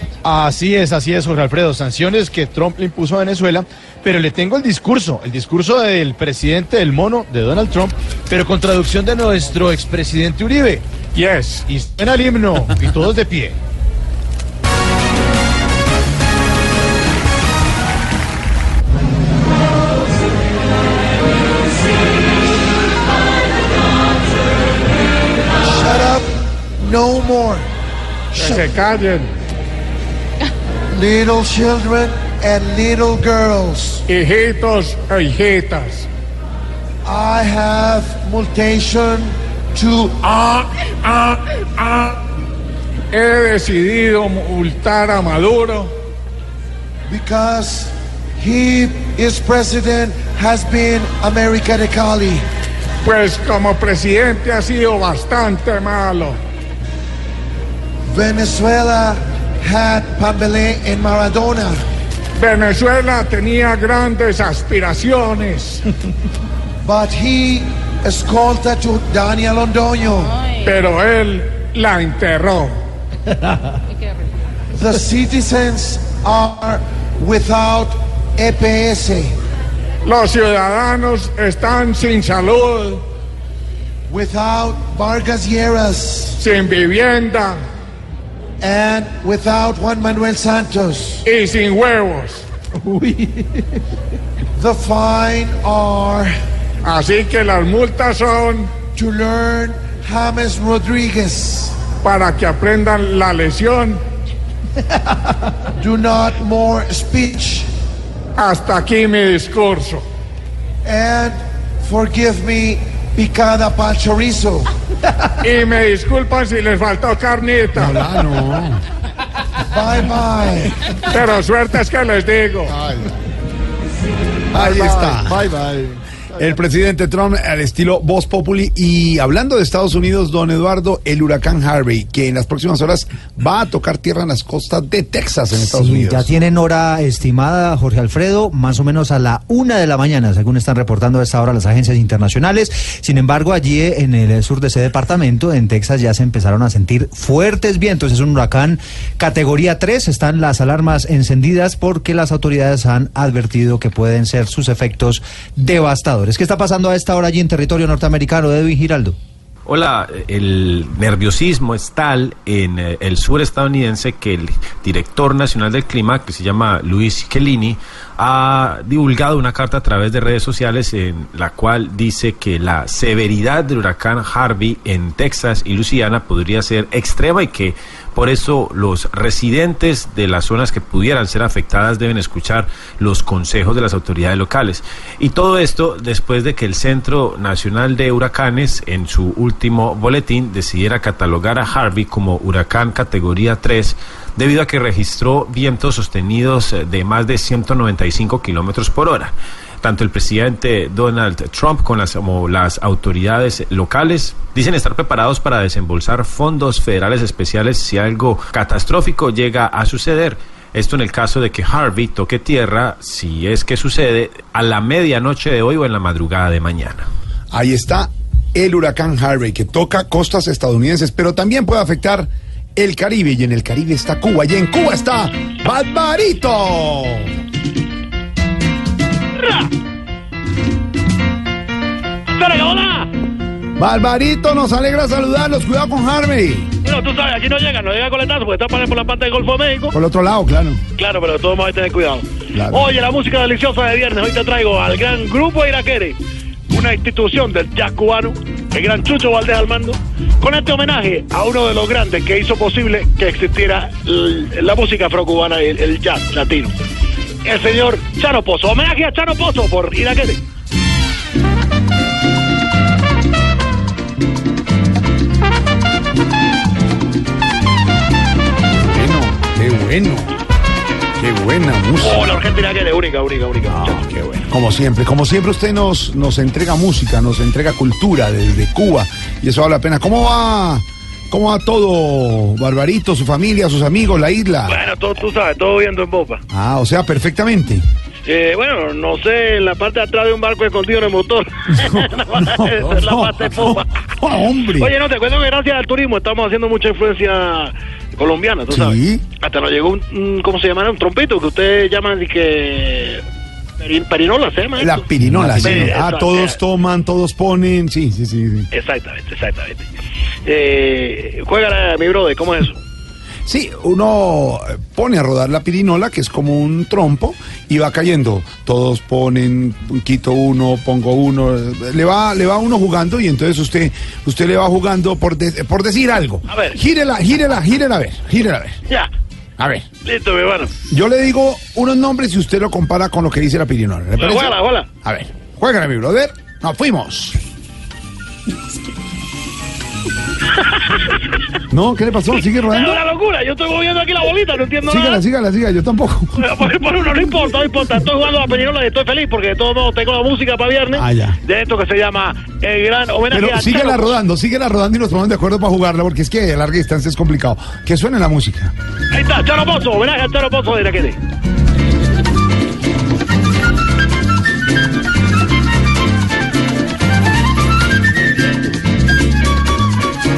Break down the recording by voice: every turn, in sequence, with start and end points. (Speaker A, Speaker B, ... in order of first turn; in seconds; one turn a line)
Speaker A: 0.2-10.8
Speaker B: 11.2-11.6
Speaker A: 11.7-13.6
Speaker C: 25.6-27.7
Speaker B: 28.4-29.3
Speaker C: 28.4-28.6
Speaker C: 30.9-34.0
Speaker B: 34.1-36.1
Speaker C: 37.0-40.3
Speaker B: 41.1-41.9
Speaker B: 43.1-45.9
Speaker C: 47.1-52.5
Speaker B: 53.0-56.4
Speaker C: 58.1-61.8
Speaker B: 62.4-65.8
Speaker C: 66.8-70.4
Speaker B: 70.6-72.7
Speaker C: 74.8-79.3
Speaker B: 80.0-83.0
Speaker C: 84.1-86.4
Speaker B: 86.4-87.6
Speaker C: 88.6-91.2
Speaker B: 91.3-92.4
Speaker C: 94.6-96.3
Speaker B: 96.8-98.7
Speaker C: 99.0-101.8
Speaker B: 102.0-104.0
Speaker C: 105.8-107.7
Speaker B: 108.4-110.0
Speaker C: 110.8-114.7
Speaker B: 115.4-118.0
Speaker D: 117.8-118.8
Speaker C: 119.7-120.7
Speaker B: 121.1-122.8
Speaker D: 124.5-125.5
Speaker A: 125.3-125.9
Speaker D: 126.3-136.3
Speaker E: 135.7-159.2
Speaker F: 159.7-217.1
Speaker D: 217.5-227.3
Speaker G: 229.4-229.7
Speaker G: 232.3-233.1
Speaker D: 233.8-236.7
Speaker G: 236.8-239.9
Speaker D: 239.9-240.8
Speaker G: 241.0-246.2
Speaker D: 242.6-243.0
Speaker G: 246.7-256.7
Speaker G: 257.4-260.4
Speaker D: 268.9-270.3
Speaker D: 271.2-272.3
Speaker G: 272.0-274.1
Speaker D: 273.7-284.8
Speaker G: 284.7-286.4
Speaker D: 286.5-287.9
Speaker G: 288.3-293.9
Speaker D: 291.8-294.9
Speaker G: 294.8-303.2
Speaker D: 298.7-299.2
Speaker G: 303.8-305.1
Speaker D: 304.8-308.7
Speaker G: 305.6-306.6
Speaker G: 308.7-309.9
Speaker G: 310.5-312.8
Speaker D: 313.5-328.8
Speaker G: 326.5-326.8
Speaker G: 330.0-330.7
Speaker D: 330.9-337.4
Speaker G: 334.2-334.9
Speaker D: 341.7-343.0
Speaker G: 342.7-345.2
Speaker D: 344.9-346.3
Speaker G: 346.4-354.2
Speaker D: 350.9-351.4
Speaker D: 353.3-358.7
Speaker G: 359.1-361.2